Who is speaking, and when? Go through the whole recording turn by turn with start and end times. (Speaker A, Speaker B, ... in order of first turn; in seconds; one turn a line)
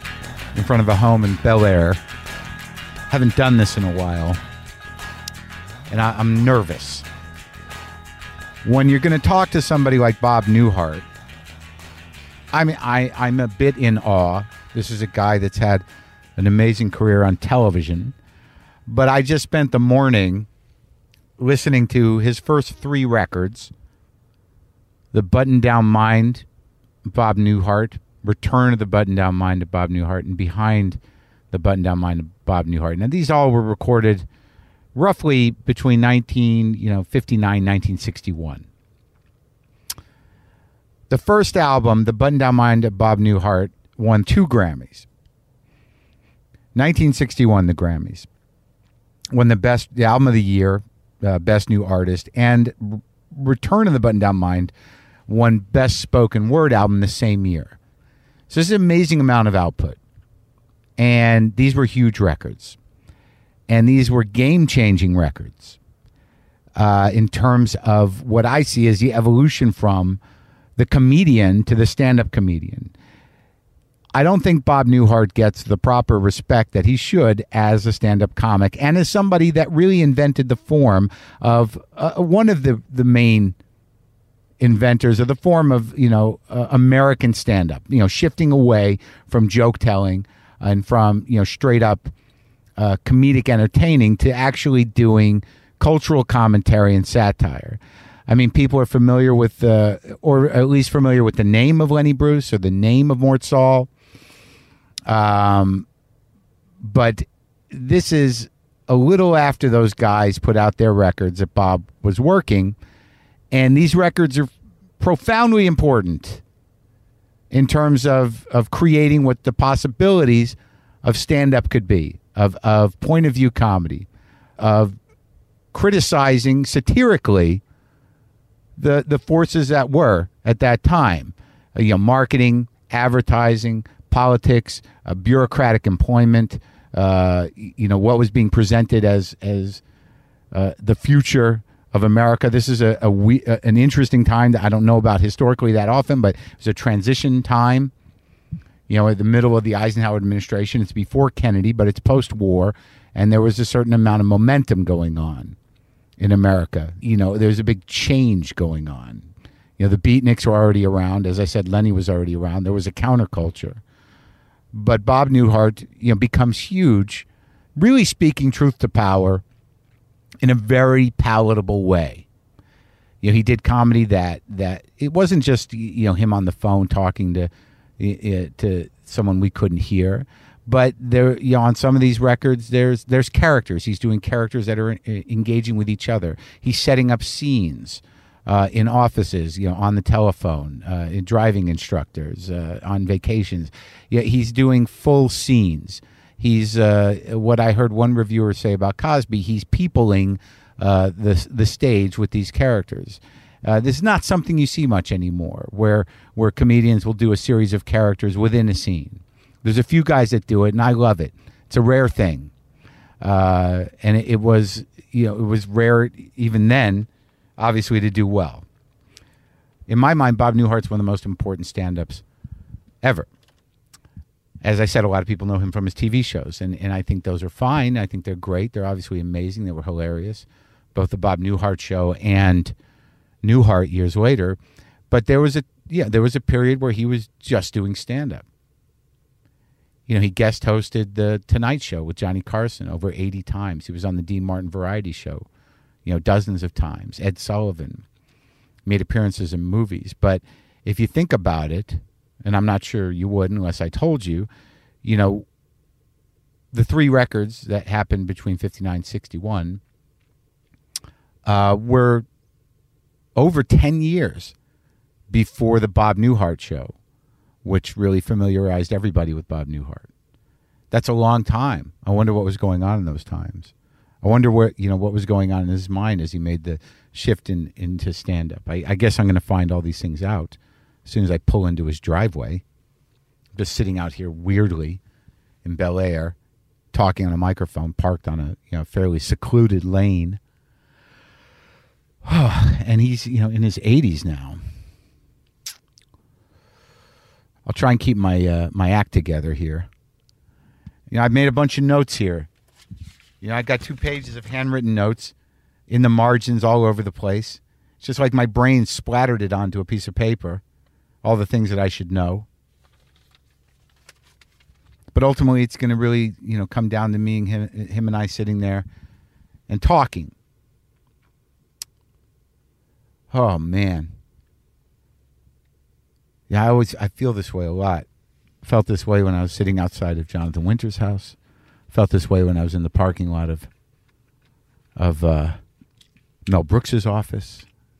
Speaker A: 0.5-2.0
Speaker A: 3.1-4.4
Speaker A: 5.9-7.1
Speaker A: 8.6-11.1
Speaker A: 12.5-15.8
Speaker A: 16.4-18.2
Speaker A: 18.9-20.5
Speaker A: 21.4-23.7
Speaker A: 25.1-26.4
Speaker A: 27.1-31.0
Speaker A: 31.5-34.3
Speaker A: 35.0-38.7
Speaker A: 41.1-45.1
Speaker A: 46.8-48.3
Speaker A: 49.3-54.7
Speaker A: 55.3-57.8
Speaker A: 58.5-60.0
Speaker A: 61.0-62.8
Speaker A: 63.7-65.8
Speaker A: 66.8-70.2
Speaker A: 70.8-72.9
Speaker A: 74.2-83.6
Speaker A: 84.6-92.1
Speaker A: 92.8-103.9
Speaker A: 105.1-105.9
Speaker A: 106.8-112.8
Speaker A: 113.5-114.5
Speaker A: 115.0-116.4
Speaker A: 117.5-124.1
Speaker A: 124.6-125.0
Speaker A: 125.7-127.6
Speaker A: 128.8-139.8
Speaker A: 140.5-147.9
Speaker A: 148.9-155.6
Speaker A: 156.2-163.8
Speaker A: 164.7-167.3
Speaker A: 167.8-169.4
Speaker A: 170.4-172.3
Speaker A: 173.2-212.5
Speaker A: 213.2-218.7
Speaker A: 219.9-222.2
Speaker A: 223.0-223.3
Speaker A: 224.6-232.8
Speaker A: 233.4-234.6
Speaker A: 235.1-238.5
Speaker A: 240.1-245.5
Speaker A: 246.1-248.0
Speaker A: 248.8-254.5
Speaker A: 255.0-255.5
Speaker A: 256.7-259.8
Speaker A: 261.4-262.3
Speaker A: 263.4-264.6
Speaker A: 265.3-266.9
Speaker A: 267.6-270.1
Speaker A: 270.9-282.6
Speaker A: 283.6-285.0
Speaker A: 285.6-286.4
Speaker A: 286.9-290.4
Speaker A: 292.2-294.6
Speaker A: 297.7-299.9
Speaker A: 301.1-302.5
Speaker A: 303.4-305.3
Speaker A: 305.9-310.6
Speaker A: 311.2-312.5
Speaker A: 315.1-318.9
Speaker A: 319.7-320.3
Speaker A: 323.3-324.1
Speaker A: 326.5-328.1
Speaker A: 328.6-331.4
Speaker A: 331.9-333.7
Speaker A: 335.0-335.6
Speaker A: 336.5-337.7